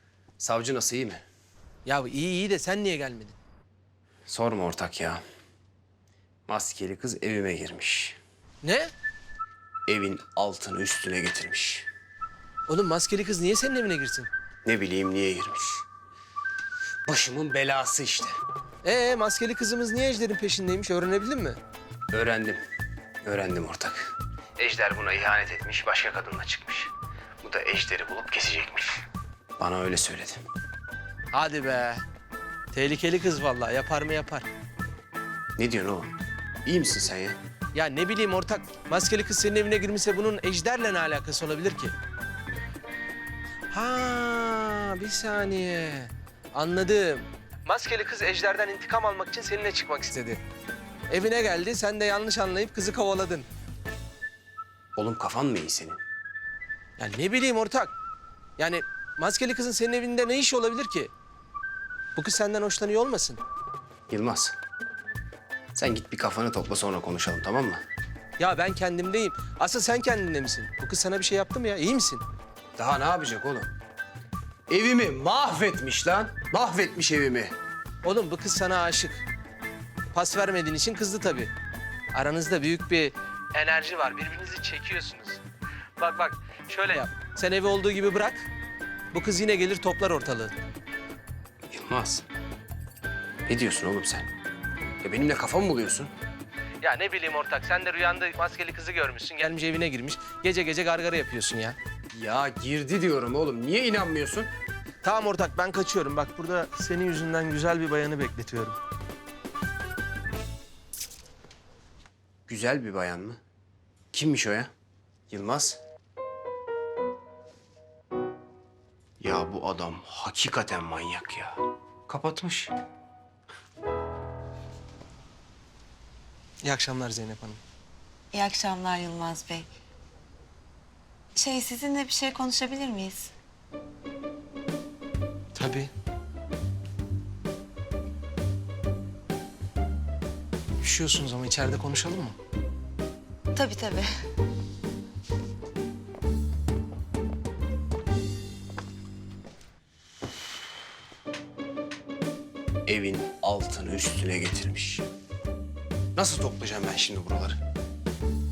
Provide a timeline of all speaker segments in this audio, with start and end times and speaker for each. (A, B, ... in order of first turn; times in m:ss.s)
0:00.4-0:01.2 A
0:01.8-0:03.4 B
0:04.2-0:05.2 A
0:06.5-0:08.2 A
0:08.6-0:08.9 B
0:09.9-0:11.9 A
0:12.7-0:14.3 B
0:14.6-0:15.8 A
0:17.0-0:18.4 A
0:18.8-0:21.6 B
0:22.1-0:22.6 A
0:23.2-0:29.0 A
0:29.6-0:30.4 A
0:31.3-0:32.0 B
0:32.7-0:34.5 B
0:35.6-0:36.1 A
0:36.6-0:37.4 A
0:37.7-0:41.9 B
0:43.7-0:50.4 B
0:51.1-0:53.5 B
0:55.0-0:56.0 A
0:57.0-0:57.9 B
0:58.6-1:01.1 B
1:02.2-1:03.4 B
1:04.1-1:04.6 A
1:05.7-1:07.8 A
1:08.4-1:12.2 B
1:12.8-1:13.7 A
1:14.7-1:17.5 A
1:18.0-1:19.2 B
1:20.1-1:21.5 B
1:22.1-1:25.4 B
1:26.0-1:28.4 B
1:29.1-1:30.6 B
1:31.7-1:32.2 A
1:33.5-1:34.3 A
1:35.0-1:36.1 A
1:36.8-1:41.8 B
1:42.1-1:44.5 A
1:45.0-1:48.8 B
1:52.5-1:53.4 A
1:54.1-1:54.7 A
1:55.3-1:55.8 A
1:59.2-2:02.7 A
2:06.6-2:07.6 B
2:08.3-2:09.7 C
2:11.4-2:13.3 C
2:15.5-2:15.9 B
2:20.8-2:22.4 B
2:23.5-2:24.0 C
2:32.8-2:35.1 A
2:36.1-2:37.6 A